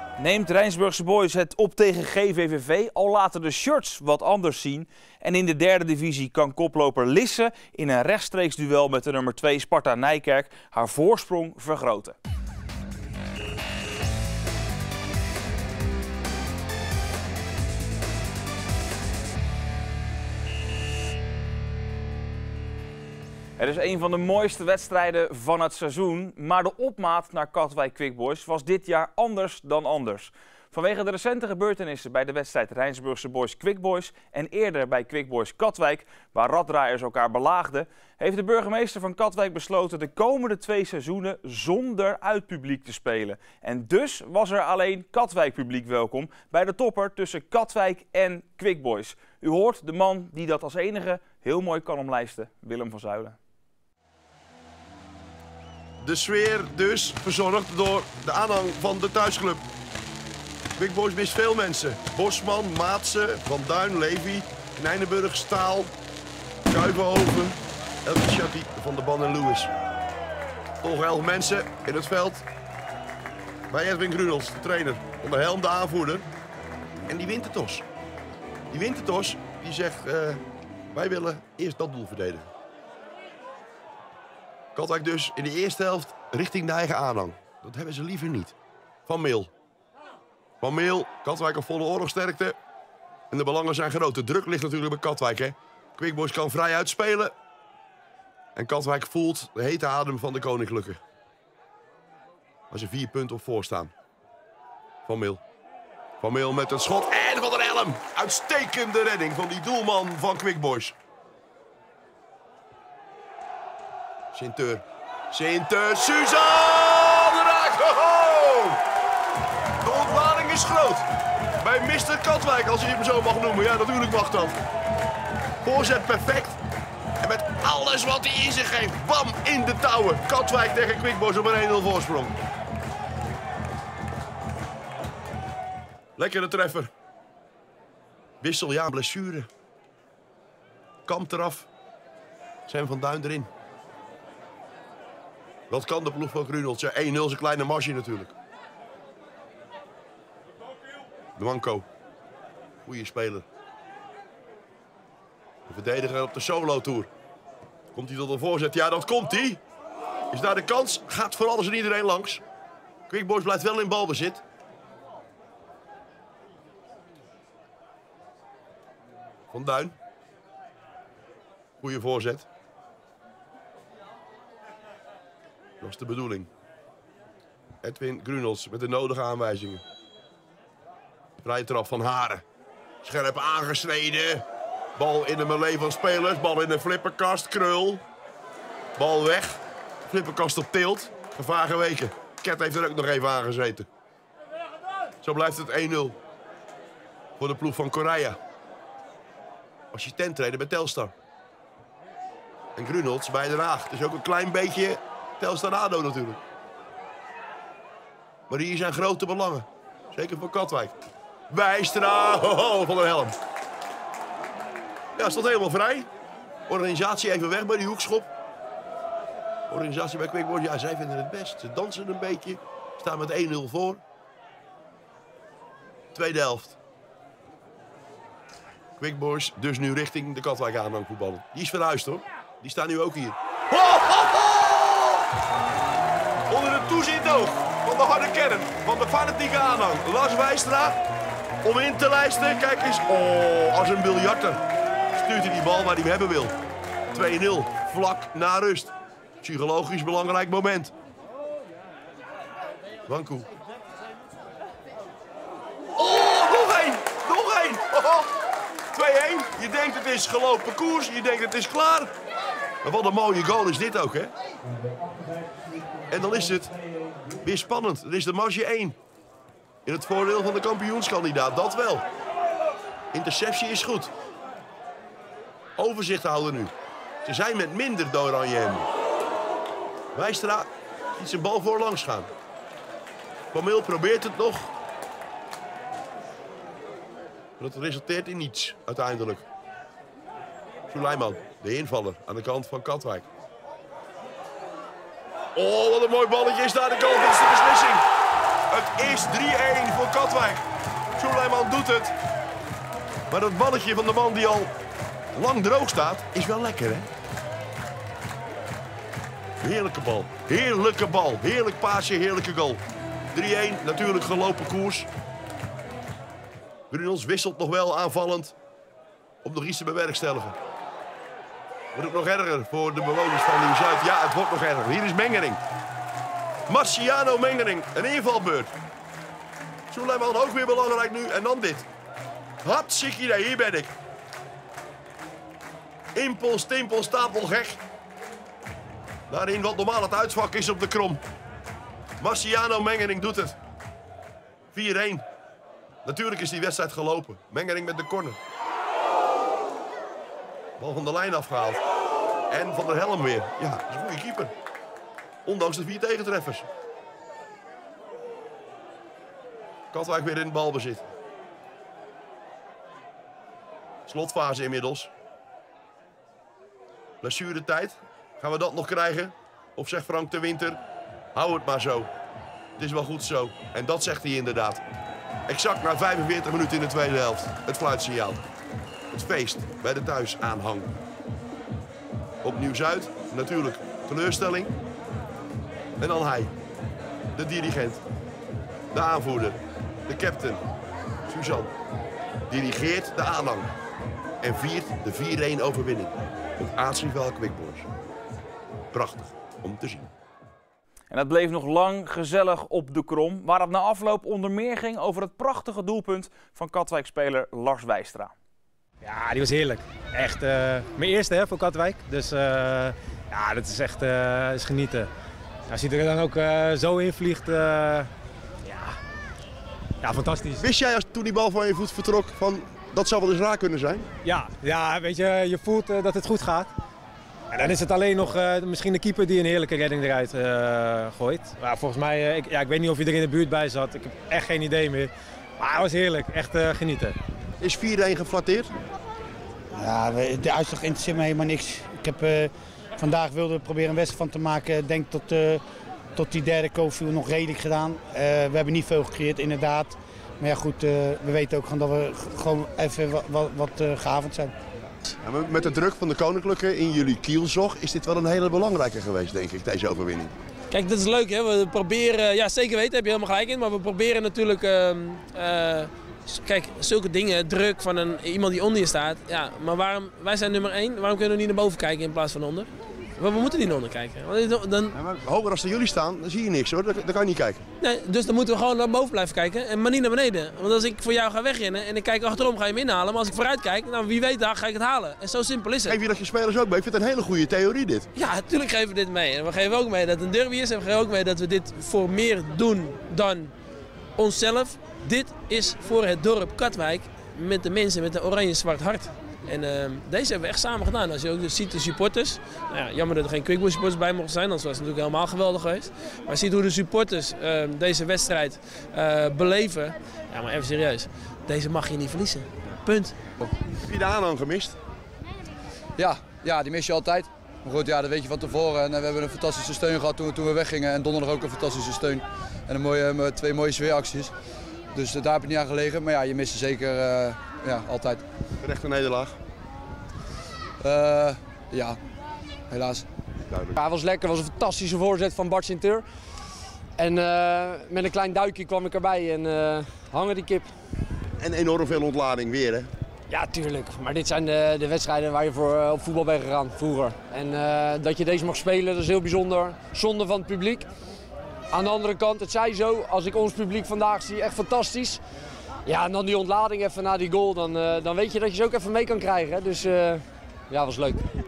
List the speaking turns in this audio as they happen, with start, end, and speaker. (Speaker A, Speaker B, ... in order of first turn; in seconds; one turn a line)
Speaker A: 0.2-12.2
Speaker A: 23.6-53.4
Speaker B: 56.0-59.6
Speaker B: 60.8-65.9
Speaker B: 66.7-69.7
Speaker B: 70.8-72.5
Speaker B: 73.7-76.3
Speaker B: 77.1-77.8
Speaker B: 78.7-82.5
Speaker B: 84.8-88.5
Speaker B: 89.1-89.5
Speaker B: 90.6-92.6
Speaker B: 93.3-97.3
Speaker B: 98.6-101.0
Speaker B: 102.7-103.9
Speaker B: 105.1-105.4
Speaker B: 106.2-111.0
Speaker B: 114.3-118.8
Speaker B: 119.8-121.1
Speaker B: 121.6-124.6
Speaker B: 125.6-126.6
Speaker B: 127.2-132.3
Speaker B: 136.2-136.9
Speaker B: 138.4-139.5
Speaker B: 141.1-141.7
Speaker B: 142.7-143.5
Speaker B: 145.7-148.3
Speaker B: 151.4-151.8
Speaker B: 152.8-153.4
Speaker B: 155.7-157.1
Speaker B: 157.9-159.6
Speaker B: 160.3-162.4
Speaker B: 163.1-164.4
Speaker B: 169.5-170.0
Speaker B: 171.8-172.5
Speaker B: 175.8-176.5
Speaker B: 177.8-179.8
Speaker B: 181.4-182.4
Speaker B: 183.0-184.4
Speaker B: 185.0-188.0
Speaker B: 189.0-193.9
Speaker B: 195.2-196.2
Speaker B: 197.4-198.4
Speaker B: 199.9-201.1
Speaker B: 202.8-206.4
Speaker B: 208.5-211.0
Speaker B: 211.5-213.4
Speaker B: 215.2-216.1
Speaker B: 216.7-218.3
Speaker B: 219.7-224.0
Speaker B: 226.1-226.8
Speaker B: 229.0-235.2
Speaker B: 236.5-241.0
Speaker B: 241.6-246.5
Speaker B: 247.1-250.9
Speaker B: 253.1-253.5
Speaker B: 256.0-258.3
Speaker B: 258.9-262.1
Speaker B: 262.8-264.3
Speaker B: 266.1-266.7
Speaker B: 267.4-269.0
Speaker B: 269.9-272.0
Speaker B: 273.1-274.1
Speaker B: 275.8-276.7
Speaker B: 277.2-278.9
Speaker B: 280.1-282.3
Speaker B: 283.5-284.7
Speaker B: 287.6-289.4
Speaker B: 290.9-293.2
Speaker B: 295.5-298.0
Speaker B: 298.7-300.6
Speaker B: 301.2-302.1
Speaker B: 303.3-304.7
Speaker B: 305.3-307.1
Speaker B: 309.6-315.1
Speaker B: 316.9-318.5
Speaker B: 319.4-320.6
Speaker B: 321.9-325.6
Speaker B: 326.7-328.7
Speaker B: 329.9-331.9
Speaker B: 332.6-333.9
Speaker B: 336.1-337.8
Speaker B: 339.3-341.2
Speaker B: 342.2-343.6
Speaker B: 344.7-345.2
Speaker B: 346.0-348.4
Speaker B: 350.8-351.8
Speaker B: 352.5-354.5
Speaker B: 355.4-356.7
Speaker B: 359.9-361.1
Speaker B: 364.1-365.1
Speaker B: 367.2-370.8
Speaker B: 371.3-372.1
Speaker B: 372.8-374.8
Speaker B: 375.5-378.4
Speaker B: 379.1-380.9
Speaker B: 382.4-384.8
Speaker B: 386.0-386.5
Speaker B: 387.4-388.0
Speaker B: 388.9-390.6
Speaker B: 391.2-391.7
Speaker B: 392.5-393.7
Speaker B: 394.4-397.9
Speaker B: 398.9-400.1
Speaker A: 401.1-408.3
Speaker C: 409.0-415.1
Speaker C: 415.7-418.1
Speaker C: 418.6-418.9
Speaker C: 420.0-420.6
Speaker B: 420.6-424.1
Speaker C: 424.2-426.7
Speaker C: 427.5-437.1
Speaker B: 437.6-438.7
Speaker D: 439.8-445.6
Speaker D: 446.1-454.5
Speaker B: 455.1-460.4
Speaker E: 460.7-474.9
Speaker B: 474.9-477.6
Speaker E: 477.8-486.0
Speaker B: 485.9-488.1
Speaker E: 488.1-493.5
Speaker E: 494.2-513.2
Speaker B: 513.8-514.8
Speaker F: 516.0-524.3
Speaker F: 524.9-528.2
Speaker B: 528.6-529.4
Speaker F: 530.8-532.0
Speaker F: 532.7-533.0
Speaker B: 533.5-533.8
Speaker G: 533.8-536.0
Speaker G: 537.0-540.7
Speaker B: 541.4-542.9
Speaker G: 543.3-550.9
Speaker G: 551.7-555.2
Speaker G: 555.9-561.3